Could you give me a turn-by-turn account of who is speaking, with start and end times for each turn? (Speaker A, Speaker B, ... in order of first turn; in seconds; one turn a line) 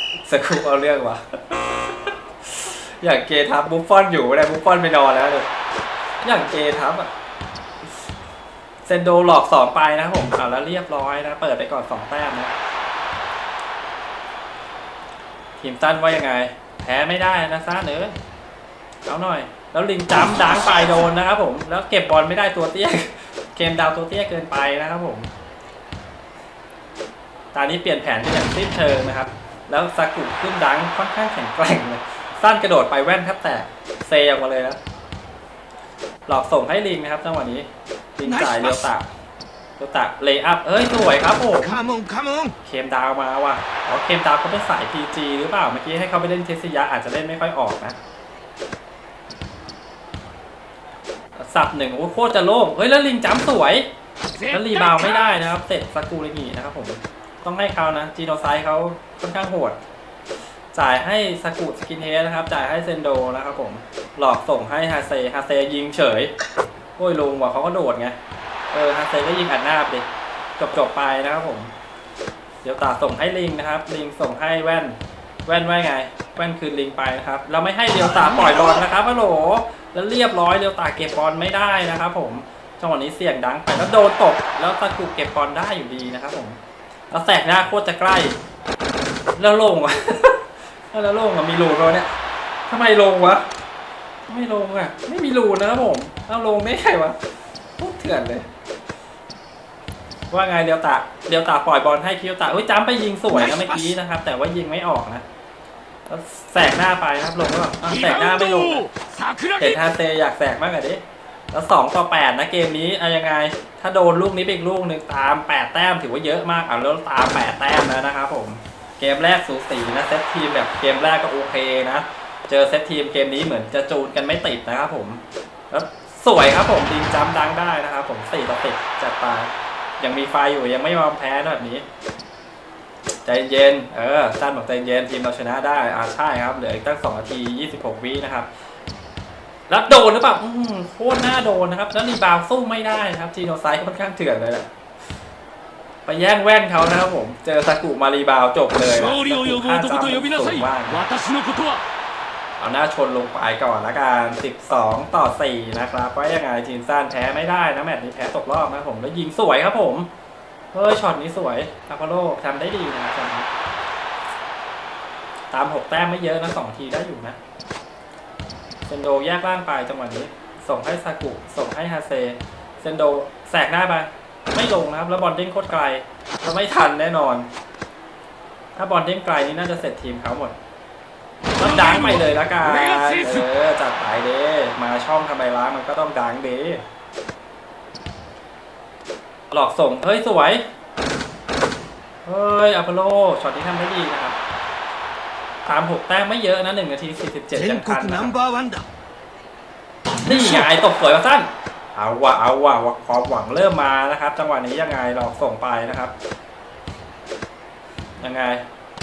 Speaker A: 0.2-5.5
Speaker A: 6.2-7.1
Speaker A: 8.9-12.5
Speaker A: 15.6-18.1
Speaker A: 19.1-25.3
Speaker B: 20.3-21.0
Speaker A: 27.5-34.8
Speaker A: 36.3-39.1
Speaker B: 38.2-38.9
Speaker A: 39.8-41.8
Speaker B: 41.6-42.5
Speaker A: 42.6-48.0
Speaker A: 51.4-53.9
Speaker C: 54.4-55.3
Speaker A: 54.5-59.8
Speaker A: 60.7-66.3
Speaker A: 67.0-68.2
Speaker A: 68.7-70.1
Speaker A: 70.6-71.7
Speaker A: 72.6-86.6
Speaker B: 78.0-78.8
Speaker A: 87.1-88.4
Speaker A: 89.4-92.1
Speaker A: 92.7-93.5
Speaker A: 94.3-97.2
Speaker A: 97.8-98.5
Speaker A: 100.3-105.2
Speaker A: 106.1-108.9
Speaker C: 107.8-109.8
Speaker A: 109.6-131.8
Speaker A: 133.2-138.5
Speaker A: 139.7-144.7
Speaker A: 146.1-151.0
Speaker C: 148.9-151.8
Speaker A: 152.6-160.1
Speaker A: 160.7-163.5
Speaker A: 165.5-167.4
Speaker A: 168.9-177.5
Speaker A: 178.8-180.6
Speaker C: 181.5-183.5
Speaker A: 181.6-186.8
Speaker A: 189.5-190.6
Speaker A: 192.2-194.4
Speaker A: 195.7-198.3
Speaker B: 197.5-198.9
Speaker A: 200.2-206.1
Speaker B: 200.2-200.7
Speaker A: 208.2-208.6